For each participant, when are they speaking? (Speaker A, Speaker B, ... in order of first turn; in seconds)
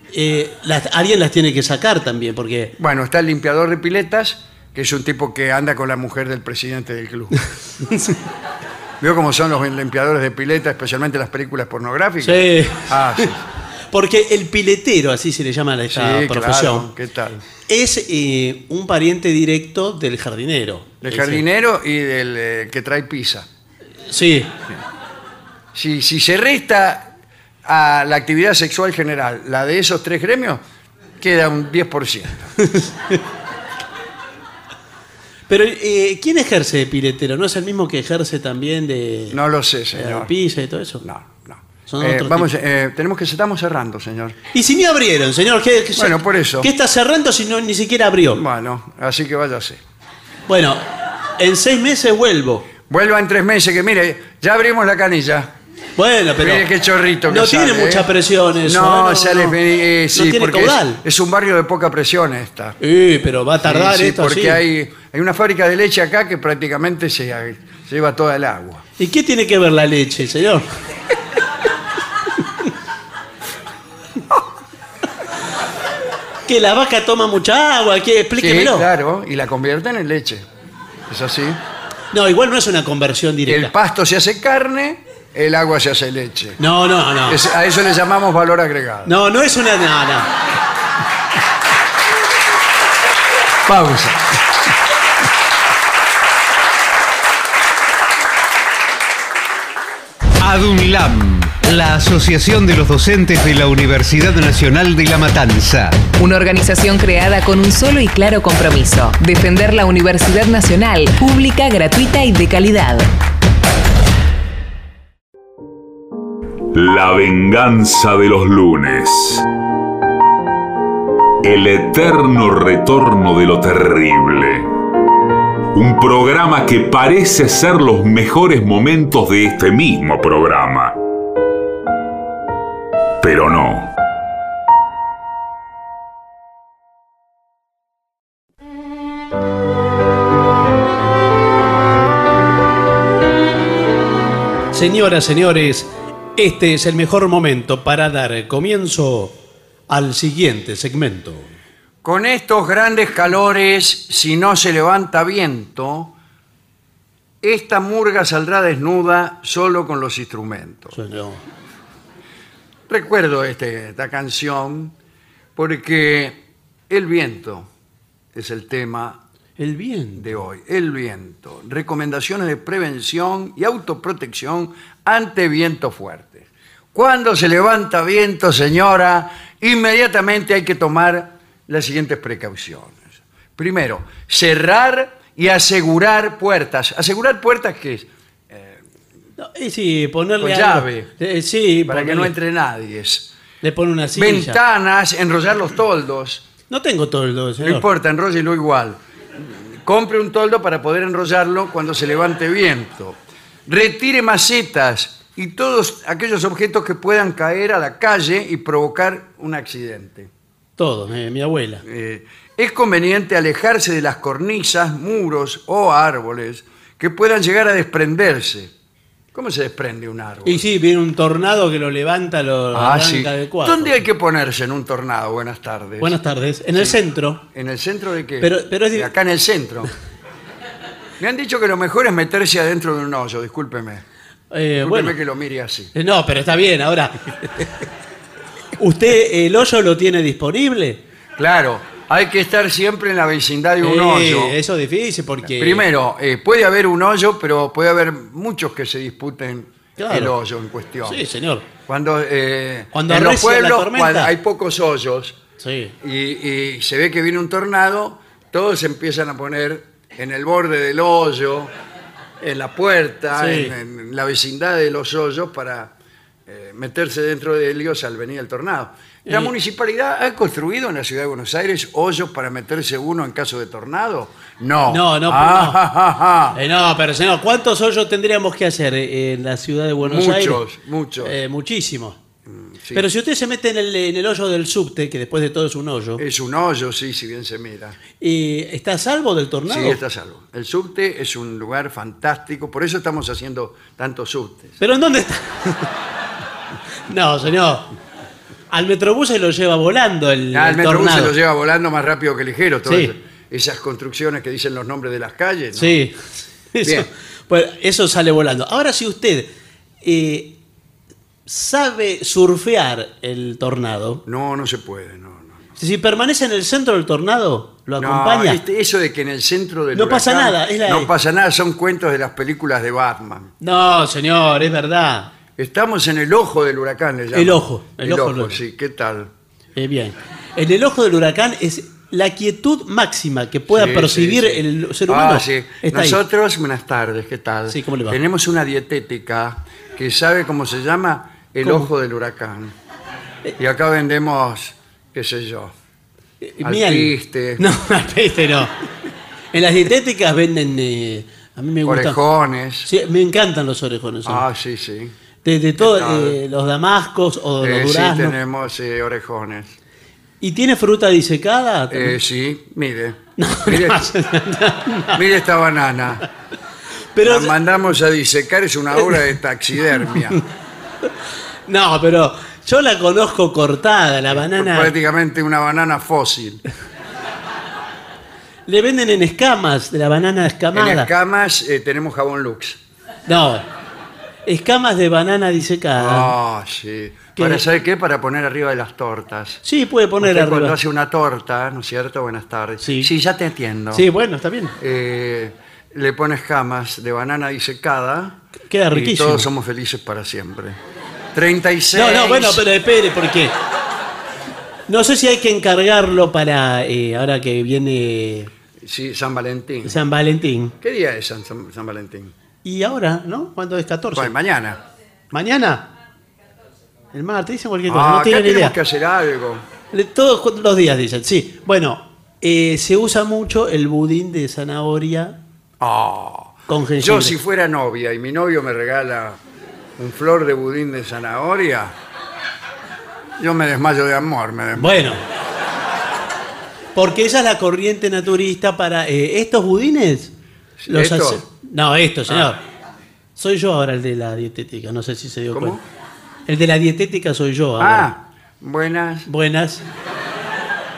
Speaker A: 0.1-2.7, 12.2-13.2, 13.9-16.9, 17.7-21.4, 24.1-24.5, 32.7-33.2, 35.5-39.4, 40.0-41.0, 41.9-42.5, 44.5-48.4, 50.5-50.8, 51.4-52.7, 56.0-56.6, 57.3-59.6, 60.1-61.0, 62.8-64.6, 69.0-70.7, 76.5-78.9, 82.1-83.7, 86.6-87.4, 89.0-90.3, 144.7-149.3, 149.9-151.5, 160.9-161.4, 169.6-170.3, 189.4-192.3, 193.6-194.6, 196.7-197.8, 210.8-211.8, 220.4-223.9, 226.0-227.4, 228.4-229.1, 234.5-235.2, 235.9-237.7, 238.8-241.0, 243.8-245.9, 250.0-250.3, 251.1-251.6, 252.9-254.3, 255.6-255.9, 263.3-263.7, 269.3-269.5, 274.9-275.8, 276.6-280.6, 281.2-282.2, 282.9-286.2, 288.2-290.0, 294.8-295.9, 297.1-297.9, 298.7-301.3, 302.9-303.1, 305.7-306.2, 306.7-309.5, 310.0-310.5, 311.4-314.2, 315.8-318.6, 319.9-321.1, 323.6-325.3, 327.3-328.6, 329.8-336.2, 337.7-338.2, 346.4-348.7, 349.5-352.2, 352.9-354.4, 355.4-358.4, 360.4-362.2, 363.4-365.2, 367.1-367.5, 371.7-374.9, 378.7-381.1, 383.3-383.6, 384.4-386.3, 387.4-387.6, 389.6-390.8, 392.8-393.1, 393.9-394.7, 398.7-399.5, 401.9-403.5, 404.9-408.5, 409.9-410.7, 412.6-414.3, 415.3-415.9, 417.1-418.7, 419.9-425.4, 426.7-427.4, 434.8-435.2, 436.9-440.3, 440.9-442.6, 443.4-445.8, 446.5-448.1, 449.3-449.8
Speaker B: 2.8-7.4, 9.0-13.4, 15.9-17.4, 21.0-23.4, 25.7-27.1, 27.6-30.6, 31.2-32.6, 39.3-40.3, 41.0-44.4, 46.0-46.7, 48.3-49.8, 52.9-55.5, 56.4-58.1, 58.6-62.8, 63.6-68.8, 78.4-80.5, 81.1-81.6, 83.5-86.6, 87.3-89.1, 93.7-94.4, 152.0-156.1, 157.4-160.9, 162.9-164.9, 165.6-166.4, 166.9-167.7, 168.3-169.2, 170.2-183.0, 183.6-188.8, 190.4-191.1, 191.9-193.3, 194.1-196.4, 197.6-210.3, 211.8-218.7, 219.3-220.6, 222.7-226.2, 226.7-229.9, 231.2-234.0, 234.8-235.9, 241.4-244.6, 245.4-251.2, 251.9-255.4, 256.0-261.7, 262.4-265.9, 266.5-276.6, 280.0-281.4, 282.5-283.1, 286.2-287.9, 289.7-294.8, 300.5-306.0, 314.3-315.6, 318.0-323.5, 325.6-329.3, 333.7-342.7, 343.6-345.7, 346.6-347.6, 351.9-352.9, 354.3-355.1, 355.8-356.4, 357.6-359.7, 361.9-364.0, 365.1-366.2, 367.2-370.4, 374.3-376.6, 380.7-382.8, 386.0-389.6, 390.2-394.1, 394.8-398.4, 398.9-400.8, 401.4-402.6, 408.8-410.0, 410.8-412.3, 414.1-414.8, 417.9-419.6, 425.8-429.4, 430.0-431.9, 433.4-435.1, 440.8-441.4, 445.5-445.8, 447.8-449.3
Speaker C: 100.4-106.1
Speaker D: 106.2-113.1
Speaker E: 116.7-119.5, 121.4-124.7, 125.7-131.0, 133.2-133.9